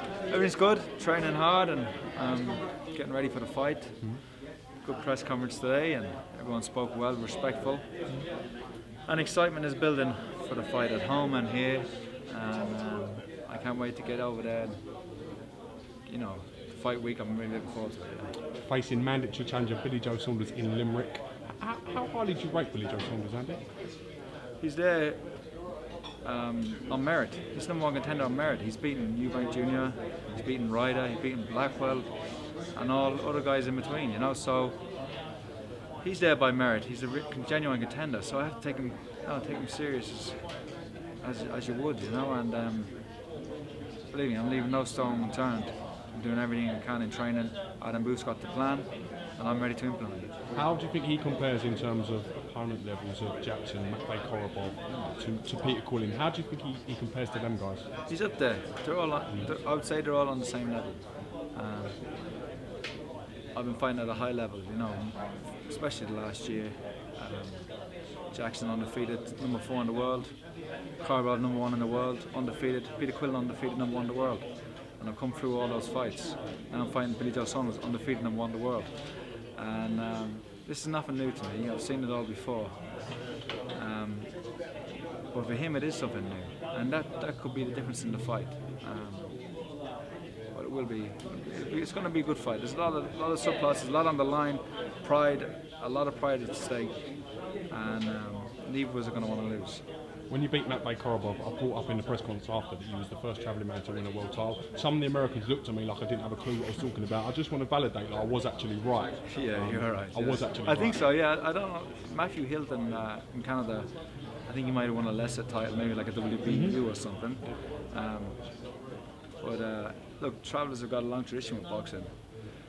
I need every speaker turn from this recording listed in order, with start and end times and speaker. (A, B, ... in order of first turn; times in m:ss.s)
0:00.3-0:08.2 A
0:09.0-0:14.8 A
0:16.0-0:18.3 A
0:18.5-0:23.6 B
0:24.6-0:25.5 A
0:26.2-0:34.8 A
0:36.0-0:40.5 A
0:41.2-0:43.0 A
0:44.1-0:50.3 A
0:50.5-0:57.8 B
0:58.1-1:02.0 A
1:03.5-1:23.0 A
1:23.7-1:24.4 A
1:25.3-1:29.3 A
1:30.5-1:37.1 A
1:37.6-1:39.8 A
1:40.3-1:51.0 B
1:49.3-1:58.5 A
1:56.4-1:57.2 B
1:59.4-2:02.2 A